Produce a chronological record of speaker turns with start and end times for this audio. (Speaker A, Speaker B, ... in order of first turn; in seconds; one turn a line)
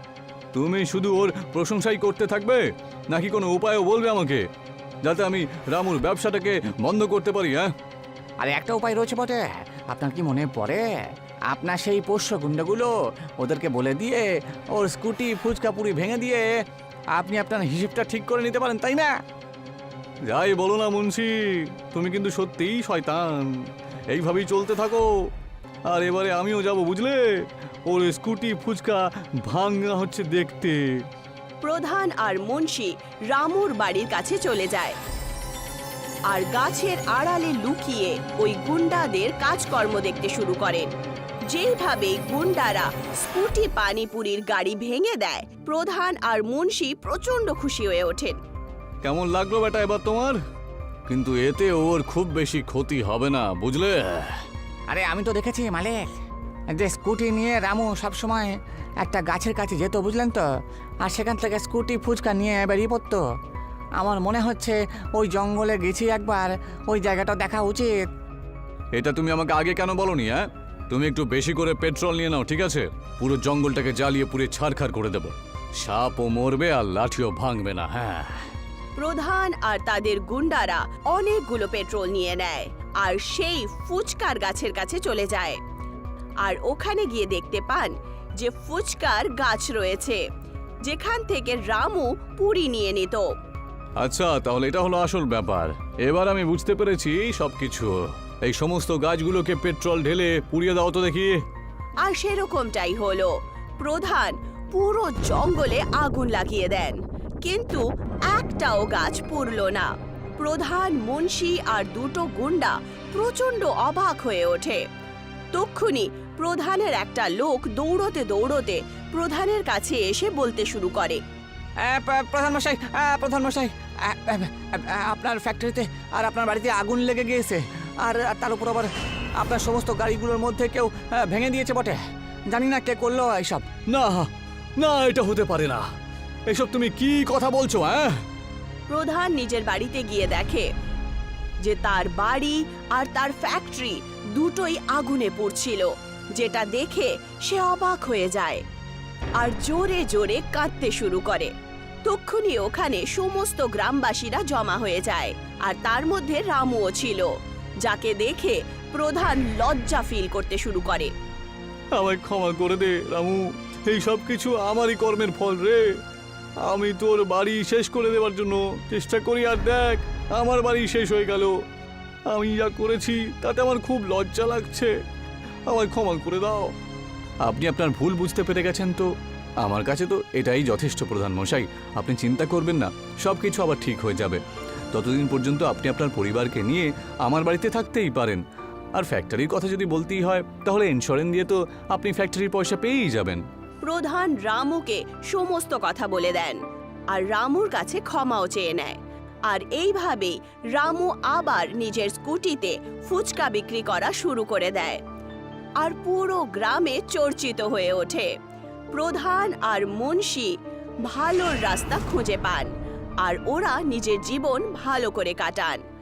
Speaker A: 0.5-4.4
Speaker A: 5.0-7.7
Speaker B: 8.4-10.8
Speaker B: 11.5-16.5
Speaker B: 17.1-19.1
Speaker A: 20.2-25.1
Speaker A: 25.9-31.0
Speaker C: 31.6-35.0
Speaker C: 36.3-40.9
Speaker C: 41.5-48.4
Speaker A: 49.0-50.4
Speaker A: 51.1-54.4
Speaker B: 54.9-56.0
Speaker B: 56.7-60.5
Speaker B: 61.0-63.2
Speaker B: 64.0-67.9
Speaker A: 68.9-78.5
Speaker C: 79.0-85.6
Speaker C: 86.4-90.2
Speaker C: 90.8-93.3
Speaker A: 94.0-101.4
Speaker C: 102.0-114.8
Speaker C: 115.5-121.2
Speaker B: 121.8-128.9
Speaker B: 129.4-132.0
Speaker B: 132.5-133.7
Speaker A: 133.9-135.9
Speaker A: 136.5-138.2
Speaker C: 138.9-140.7
Speaker C: 141.6-148.6
Speaker C: 149.4-151.5
Speaker C: 152.0-161.1
Speaker A: 161.9-165.9
Speaker A: 166.6-171.6
Speaker A: 172.3-174.9
Speaker A: 175.7-176.7
Speaker A: 177.4-179.1
Speaker A: 179.6-184.4
Speaker A: 184.9-188.4
Speaker A: 188.9-193.4
Speaker C: 193.8-205.0
Speaker C: 205.8-208.3
Speaker C: 208.9-212.7
Speaker C: 213.2-215.8